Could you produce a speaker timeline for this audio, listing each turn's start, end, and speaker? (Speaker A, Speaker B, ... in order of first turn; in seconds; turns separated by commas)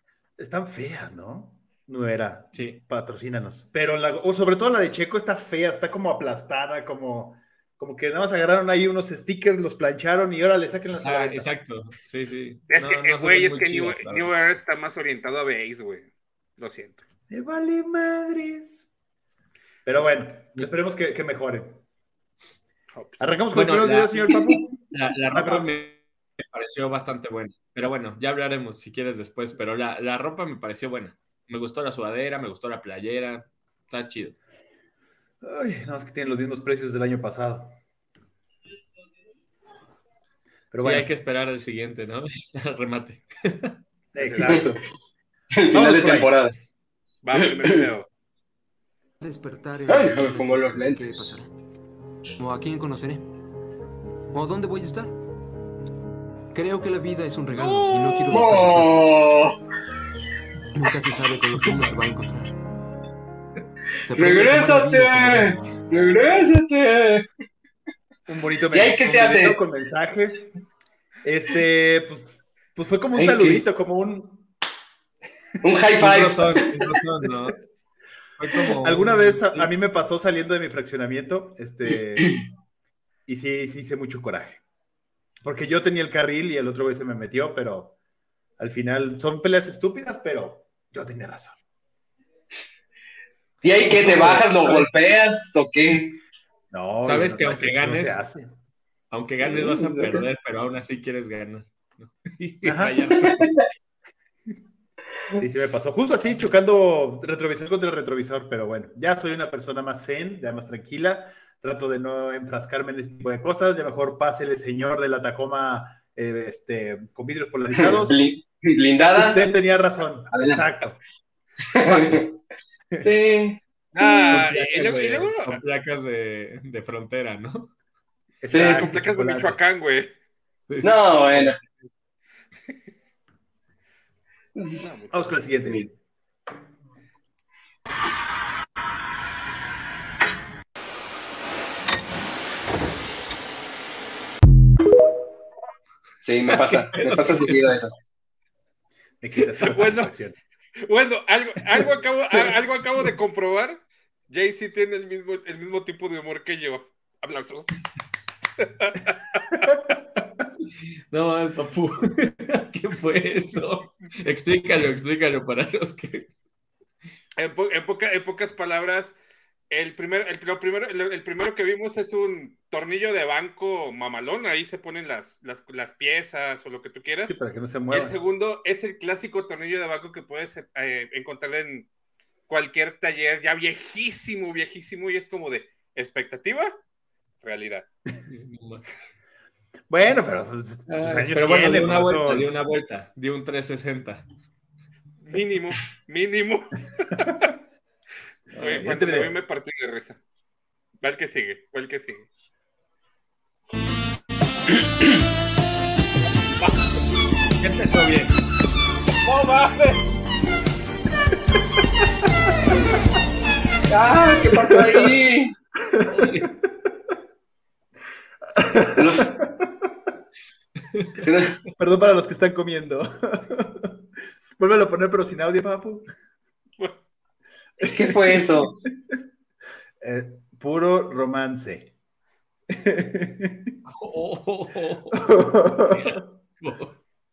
Speaker A: 0.4-11.5, Speaker B: 2.5-2.8, Speaker B: 11.0-14.3, Speaker C: 12.7-17.0, Speaker A: 17.3-18.9, Speaker A: 19.8-21.8, Speaker C: 22.9-23.3, Speaker A: 23.2-25.7, Speaker B: 23.5-24.4, Speaker B: 24.9-34.3, Speaker A: 35.4-37.7, Speaker A: 40.7-41.1, Speaker B: 40.8-43.7, Speaker A: 44.1-44.8, Speaker D: 45.5-46.5, Speaker A: 45.7-46.3, Speaker C: 47.2-48.1, Speaker D: 47.4-47.8, Speaker E: 49.2-51.5, Speaker D: 49.8-51.2, Speaker E: 52.4-53.2, Speaker E: 54.3-55.1, Speaker E: 56.5-59.0, Speaker C: 57.5-58.4, Speaker D: 58.3-59.5, Speaker E: 60.7-62.5, Speaker E: 64.0-65.8, Speaker D: 64.1-67.2, Speaker A: 68.3-70.4, Speaker D: 68.7-69.6, Speaker A: 71.2-74.5, Speaker D: 73.2-73.6, Speaker D: 75.6-76.5, Speaker B: 76.0-77.5, Speaker B: 78.4-79.7, Speaker A: 78.8-82.3, Speaker A: 83.3-84.6, Speaker A: 85.4-87.9, Speaker A: 88.6-91.5, Speaker D: 93.6-96.2, Speaker A: 93.8-94.8, Speaker A: 96.7-98.5, Speaker B: 97.0-98.2, Speaker B: 99.1-103.4, Speaker D: 99.5-100.2, Speaker A: 102.6-103.4, Speaker A: 105.4-118.2, Speaker D: 117.7-119.6, Speaker A: 119.0-121.0, Speaker D: 120.3-120.6, Speaker D: 121.7-122.2, Speaker A: 121.9-122.2, Speaker D: 123.0-123.6, Speaker C: 123.9-125.6, Speaker B: 124.3-127.7, Speaker A: 128.4-129.6, Speaker D: 128.5-128.8, Speaker C: 128.5-130.1, Speaker B: 130.7-131.5, Speaker D: 130.8-131.6, Speaker D: 134.6-134.8, Speaker C: 134.8-135.5, Speaker A: 135.1-135.8, Speaker D: 146.2-147.9, Speaker B: 146.5-147.7, Speaker A: 149.2-150.3, Speaker C: 149.6-150.1, Speaker C: 150.8-157.7, Speaker A: 151.7-152.0, Speaker C: 158.8-159.6, Speaker A: 159.7-159.9, Speaker B: 161.1-166.3, Speaker C: 167.4-169.1, Speaker C: 169.7-177.4, Speaker A: 177.2-178.2, Speaker C: 177.9-181.9, Speaker C: 182.5-186.8, Speaker C: 187.4-187.9, Speaker B: 188.3-188.8, Speaker A: 189.9-192.5, Speaker B: 190.9-194.2, Speaker C: 195.2-197.5, Speaker C: 198.5-200.2, Speaker B: 198.6-198.8, Speaker A: 198.6-199.3, Speaker C: 201.0-202.3, Speaker A: 207.6-208.0, Speaker C: 209.2-210.0, Speaker D: 213.9-215.5, Speaker A: 214.6-215.2, Speaker A: 215.9-216.5, Speaker B: 216.1-216.5, Speaker A: 218.6-219.7, Speaker D: 218.9-219.3, Speaker D: 221.2-221.6, Speaker A: 221.8-223.9, Speaker A: 224.6-226.1, Speaker D: 227.8-228.7, Speaker A: 227.8-228.7, Speaker A: 230.0-231.9, Speaker A: 232.7-233.7, Speaker B: 233.9-236.9, Speaker A: 235.1-236.2